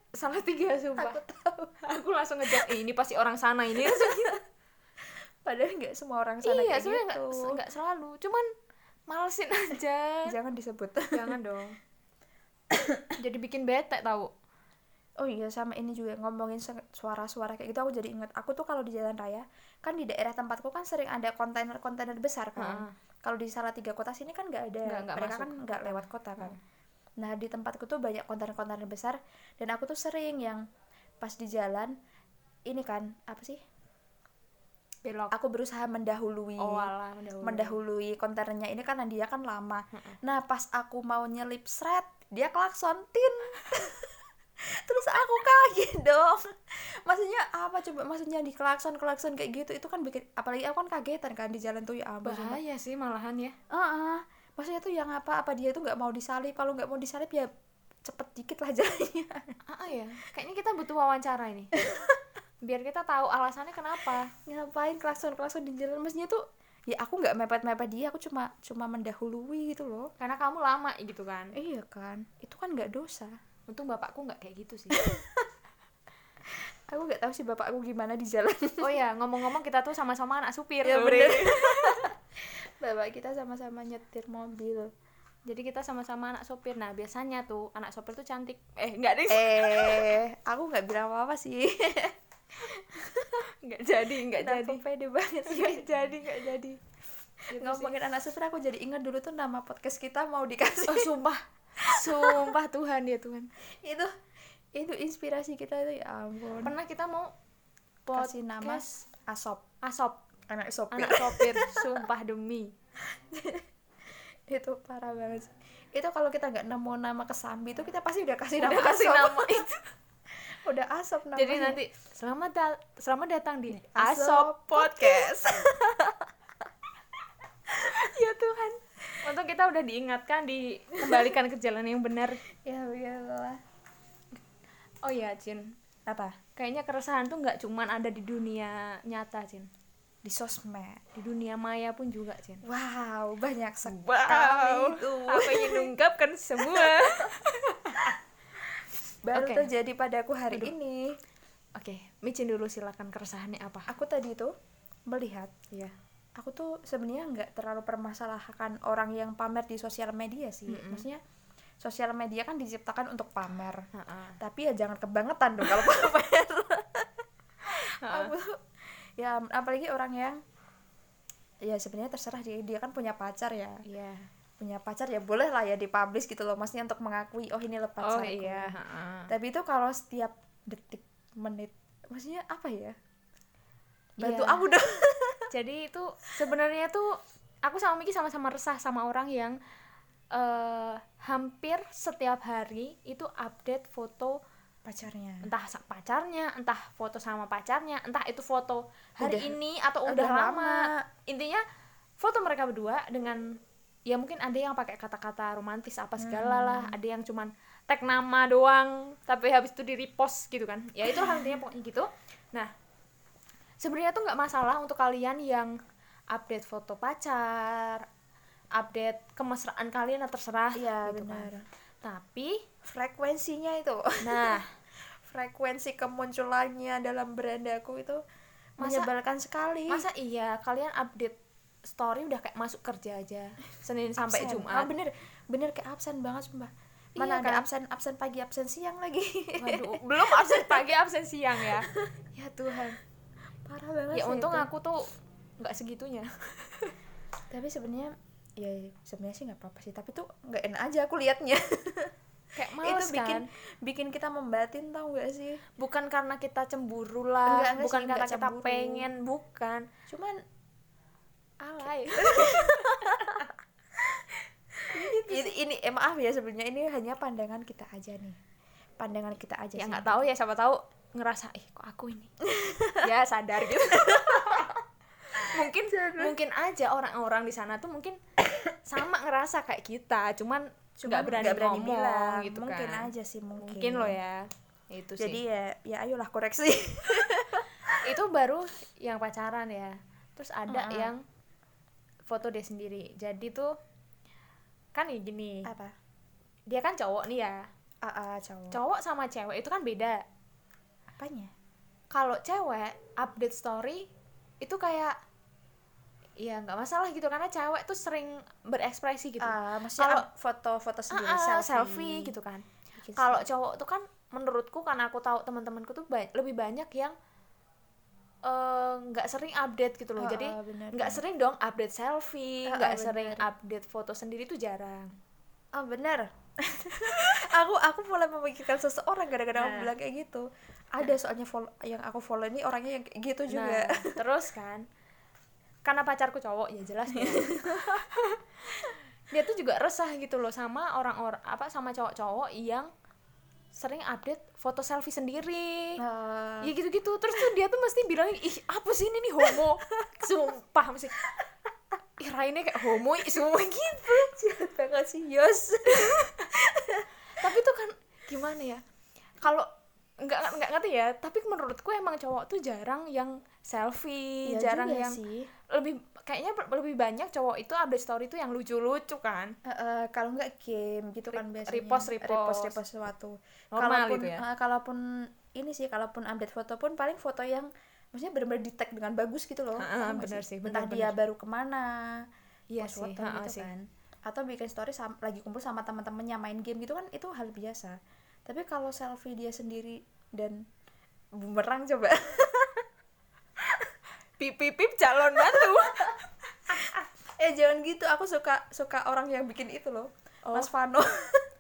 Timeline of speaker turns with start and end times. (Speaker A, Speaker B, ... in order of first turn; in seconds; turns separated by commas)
Speaker A: 0.1-1.2, Speaker B: 1.0-1.8, Speaker A: 1.8-4.4, Speaker B: 3.9-4.4, Speaker B: 5.0-7.6, Speaker A: 6.4-8.5, Speaker A: 9.1-10.3, Speaker B: 10.3-11.3, Speaker A: 11.1-11.8, Speaker B: 12.7-13.1, Speaker A: 13.2-14.3, Speaker B: 15.2-26.6, Speaker A: 22.6-22.9, Speaker A: 24.9-26.6, Speaker B: 27.2-30.6, Speaker B: 31.2-32.0, Speaker B: 32.7-33.6, Speaker A: 35.0-35.3, Speaker B: 35.3-36.9, Speaker A: 36.6-37.8, Speaker B: 37.4-52.6, Speaker A: 52.2-53.6, Speaker B: 53.7-57.5, Speaker B: 58.0-59.5, Speaker A: 59.7-61.8, Speaker B: 61.8-62.2, Speaker A: 62.6-64.3, Speaker B: 64.5-70.1, Speaker A: 70.2-71.5, Speaker B: 71.5-73.4, Speaker A: 73.7-75.0, Speaker B: 75.0-75.5, Speaker B: 76.5-78.9, Speaker A: 78.8-82.1, Speaker B: 80.8-84.9, Speaker A: 85.5-90.2, Speaker B: 89.3-93.5, Speaker A: 93.5-94.8, Speaker B: 94.4-96.1, Speaker A: 95.5-96.8, Speaker A: 97.5-97.9, Speaker B: 97.5-101.1, Speaker A: 100.9-103.5, Speaker B: 101.8-102.5, Speaker B: 103.7-104.1, Speaker B: 104.8-106.7, Speaker A: 106.6-107.3, Speaker A: 108.1-109.0, Speaker B: 108.2-109.6, Speaker A: 109.8-110.2, Speaker B: 110.5-112.0, Speaker A: 110.9-112.7, Speaker B: 113.0-113.7, Speaker B: 114.5-119.7, Speaker A: 118.6-119.8, Speaker B: 120.5-121.8, Speaker A: 121.3-125.4, Speaker B: 123.9-126.3, Speaker A: 127.8-132.4, Speaker B: 131.0-131.4, Speaker B: 132.6-133.6, Speaker A: 135.1-135.8, Speaker B: 136.1-136.4, Speaker A: 136.6-139.7, Speaker B: 140.2-141.1, Speaker A: 141.2-142.6, Speaker B: 142.6-145.9, Speaker A: 143.8-148.1, Speaker B: 146.6-147.3, Speaker B: 149.3-151.2, Speaker A: 149.3-149.7, Speaker A: 151.8-153.9, Speaker B: 153.9-154.5, Speaker B: 155.1-155.6, Speaker B: 156.4-161.2, Speaker A: 160.7-161.1, Speaker B: 161.8-163.8, Speaker A: 163.9-164.4, Speaker B: 164.4-167.1, Speaker B: 167.6-170.4, Speaker A: 167.8-168.3, Speaker B: 171.6-173.8, Speaker A: 173.8-174.3, Speaker B: 174.6-178.8, Speaker A: 178.0-179.3, Speaker B: 179.3-183.0, Speaker A: 184.2-184.7, Speaker B: 184.2-185.5, Speaker A: 185.5-189.6, Speaker A: 190.3-194.4, Speaker B: 194.8-195.5, Speaker A: 195.4-201.6, Speaker B: 199.2-201.1, Speaker A: 202.2-203.5, Speaker A: 204.1-212.7, Speaker B: 206.2-207.0, Speaker B: 211.1-211.6, Speaker A: 213.8-215.8, Speaker A: 216.3-218.1, Speaker A: 218.8-221.5, Speaker B: 220.8-221.7, Speaker A: 222.0-222.6, Speaker B: 222.8-228.2, Speaker A: 224.2-224.7, Speaker B: 228.8-230.1, Speaker A: 228.8-229.1, Speaker A: 229.9-231.4, Speaker A: 231.9-234.9, Speaker B: 234.2-240.9, Speaker A: 237.2-237.7, Speaker A: 239.6-243.0, Speaker B: 241.7-242.1, Speaker B: 243.7-244.7, Speaker A: 244.1-246.9, Speaker B: 247.5-252.1, Speaker A: 252.6-253.5, Speaker B: 252.7-255.6, Speaker A: 255.8-259.9, Speaker B: 257.5-259.1, Speaker B: 260.1-260.4, Speaker A: 261.6-263.4, Speaker B: 262.1-263.5, Speaker B: 264.0-268.4, Speaker A: 264.9-265.5, Speaker B: 269.0-270.2, Speaker A: 269.8-272.3, Speaker B: 272.4-273.1, Speaker A: 273.0-274.8, Speaker B: 273.8-274.8, Speaker A: 275.3-278.2, Speaker B: 275.4-276.4, Speaker A: 278.7-285.4, Speaker B: 281.0-284.2, Speaker B: 285.2-288.0, Speaker A: 288.0-291.2, Speaker B: 290.7-291.1, Speaker A: 292.3-293.7, Speaker A: 294.9-295.7, Speaker B: 295.7-295.9, Speaker A: 296.7-297.6, Speaker B: 298.0-298.8, Speaker A: 298.7-300.2, Speaker B: 301.2-301.5, Speaker A: 302.1-304.1, Speaker A: 304.6-305.1, Speaker A: 306.4-310.3, Speaker B: 309.4-312.3, Speaker A: 311.1-312.6, Speaker B: 313.0-313.4, Speaker A: 313.2-317.1, Speaker A: 318.4-325.1, Speaker B: 320.2-321.2, Speaker B: 322.7-323.5, Speaker B: 325.8-334.2, Speaker A: 329.6-329.9, Speaker A: 333.5-334.9, Speaker A: 335.9-342.9, Speaker B: 337.1-338.1, Speaker A: 343.8-346.0, Speaker B: 346.0-346.7, Speaker A: 346.6-351.2, Speaker B: 349.5-350.1, Speaker A: 352.2-354.3, Speaker B: 353.9-357.1, Speaker A: 357.3-358.8, Speaker A: 359.4-359.7, Speaker A: 360.2-365.2, Speaker B: 364.5-365.5, Speaker A: 365.7-369.6, Speaker B: 369.6-382.2, Speaker A: 371.3-372.8, Speaker A: 373.7-374.4, Speaker A: 379.8-381.2, Speaker A: 382.7-383.7, Speaker B: 382.8-390.6, Speaker B: 391.4-392.8, Speaker B: 393.6-393.9, Speaker A: 394.4-396.2, Speaker B: 396.7-401.5